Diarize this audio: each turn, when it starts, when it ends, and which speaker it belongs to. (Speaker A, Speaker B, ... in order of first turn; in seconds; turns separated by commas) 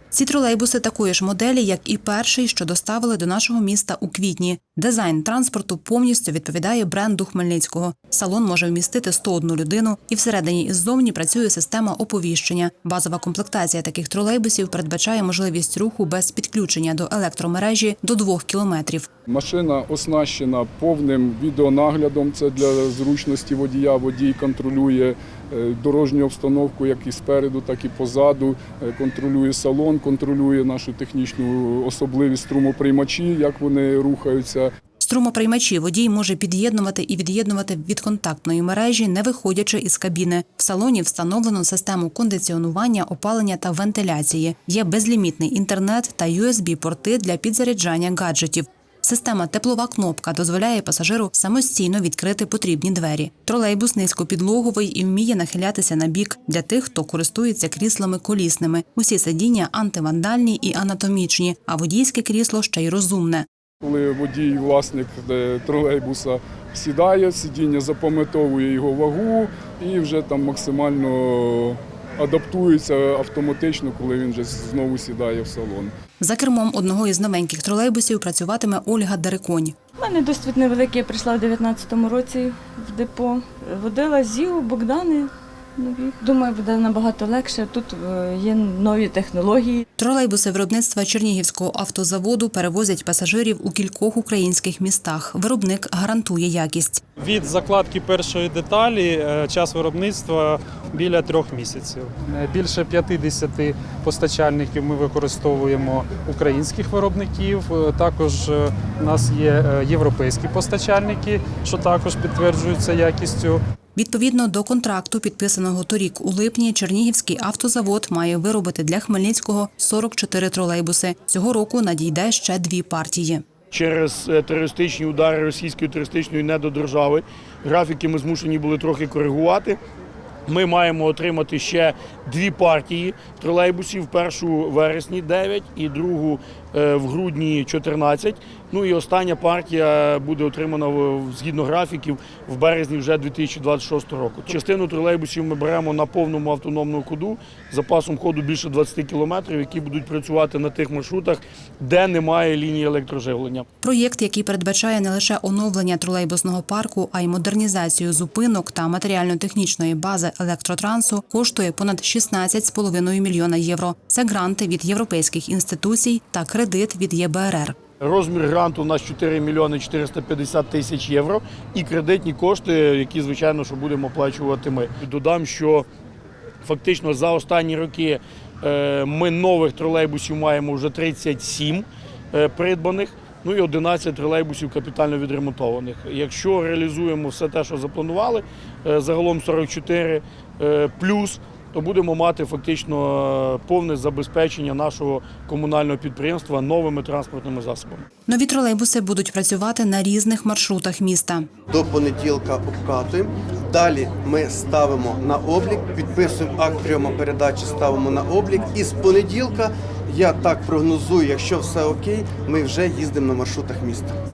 Speaker A: 0.1-19.1, Speaker B: 19.3-34.7, Speaker A: 35.0-63.5, Speaker B: 63.8-75.9, Speaker A: 76.2-79.8, Speaker C: 80.0-85.3, Speaker C: 85.8-89.8, Speaker A: 90.0-97.0, Speaker D: 97.2-113.6, Speaker A: 114.0-123.4, Speaker E: 123.7-129.8, Speaker E: 130.5-153.7, Speaker A: 153.8-167.8, Speaker E: 168.0-175.9, Speaker E: 176.6-198.1, Speaker A: 198.3-201.5, Speaker F: 201.7-214.2